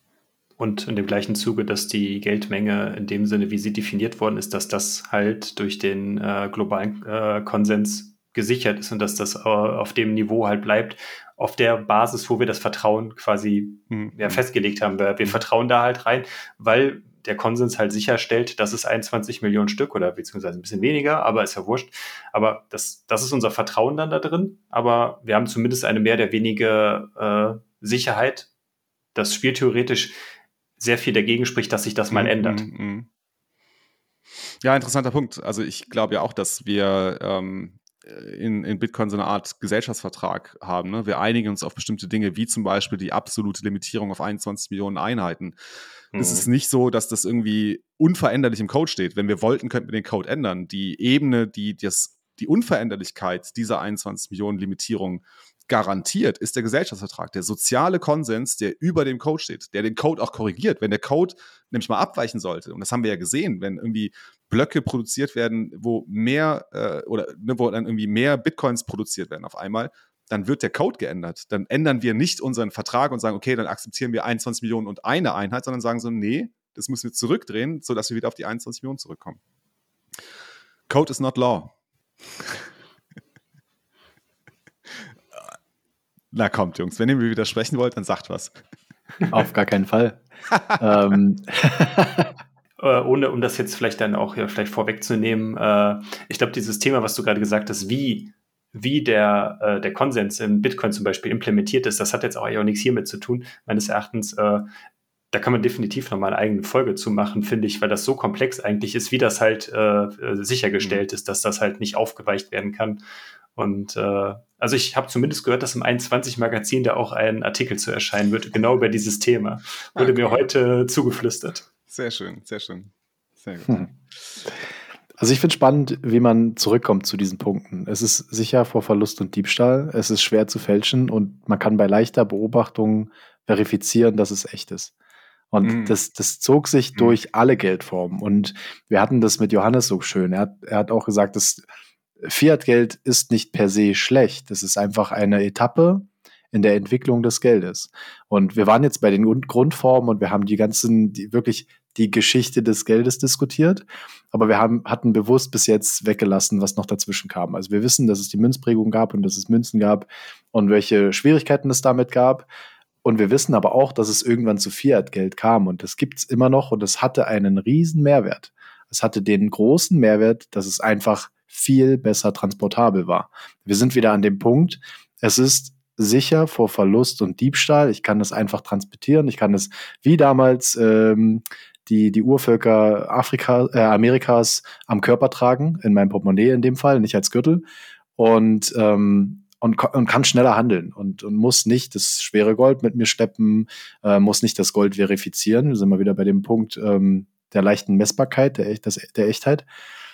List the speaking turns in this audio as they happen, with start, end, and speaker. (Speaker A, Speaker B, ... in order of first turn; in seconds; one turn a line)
Speaker A: 0.6-28.5
Speaker B: 13.9-14.4
Speaker A: 29.1-30.2
Speaker A: 30.8-32.7
Speaker B: 32.1-33.1
Speaker B: 34.6-45.5
Speaker A: 46.1-46.5
Speaker B: 46.2-79.4
Speaker B: 80.9-81.7
Speaker B: 86.3-88.6
Speaker C: 89.3-90.2
Speaker B: 90.5-90.8
Speaker C: 90.8-92.3
Speaker A: 92.8-104.7
Speaker A: 105.3-113.0
Speaker A: 113.6-121.7
Speaker B: 120.0-120.4
Speaker B: 121.9-123.9
Speaker C: 125.2-134.9
Speaker C: 135.5-141.7
Speaker B: 135.6-135.9
Speaker C: 142.2-162.5
Speaker C: 163.0-187.7
Speaker C: 188.2-199.7